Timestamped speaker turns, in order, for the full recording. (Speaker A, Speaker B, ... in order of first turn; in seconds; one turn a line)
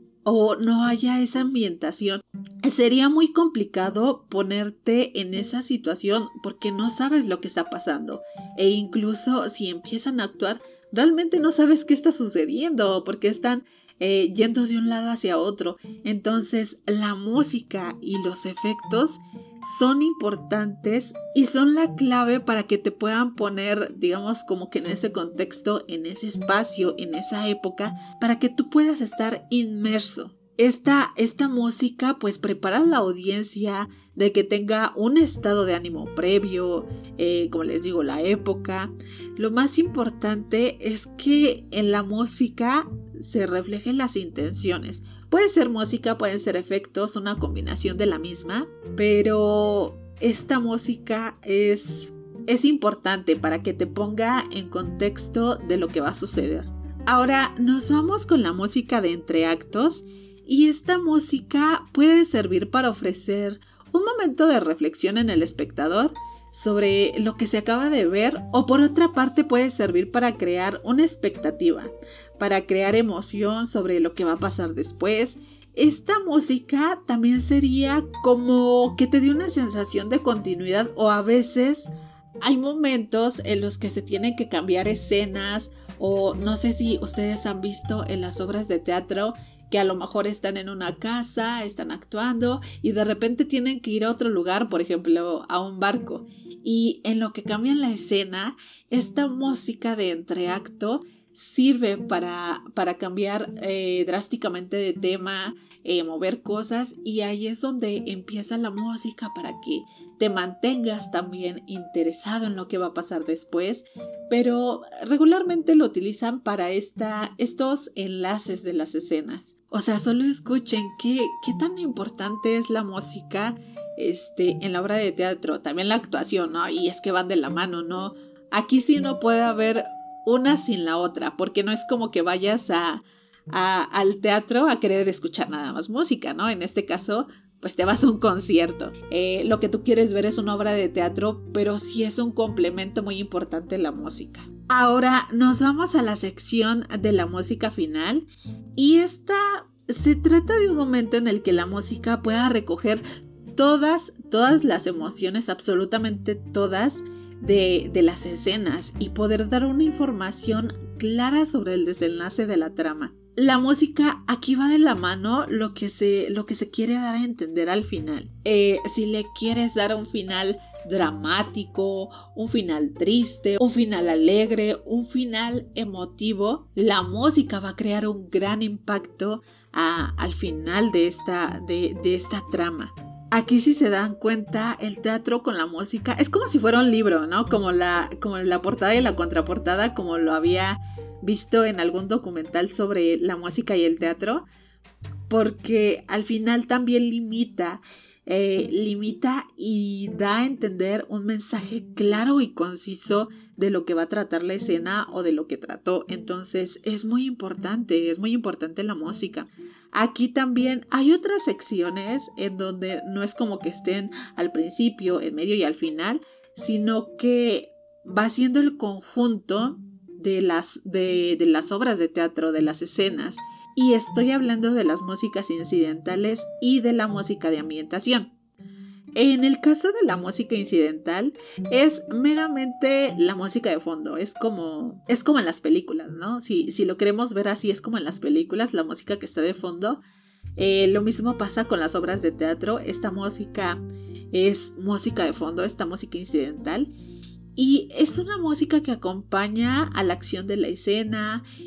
Speaker A: 0.2-81.9
Speaker A: 82.4-148.2
Speaker A: 148.8-153.0
Speaker A: 153.5-194.4
Speaker A: 195.3-228.3
Speaker A: 229.2-240.0
Speaker A: 240.6-243.8
Speaker A: 244.3-246.9
Speaker A: 247.6-251.4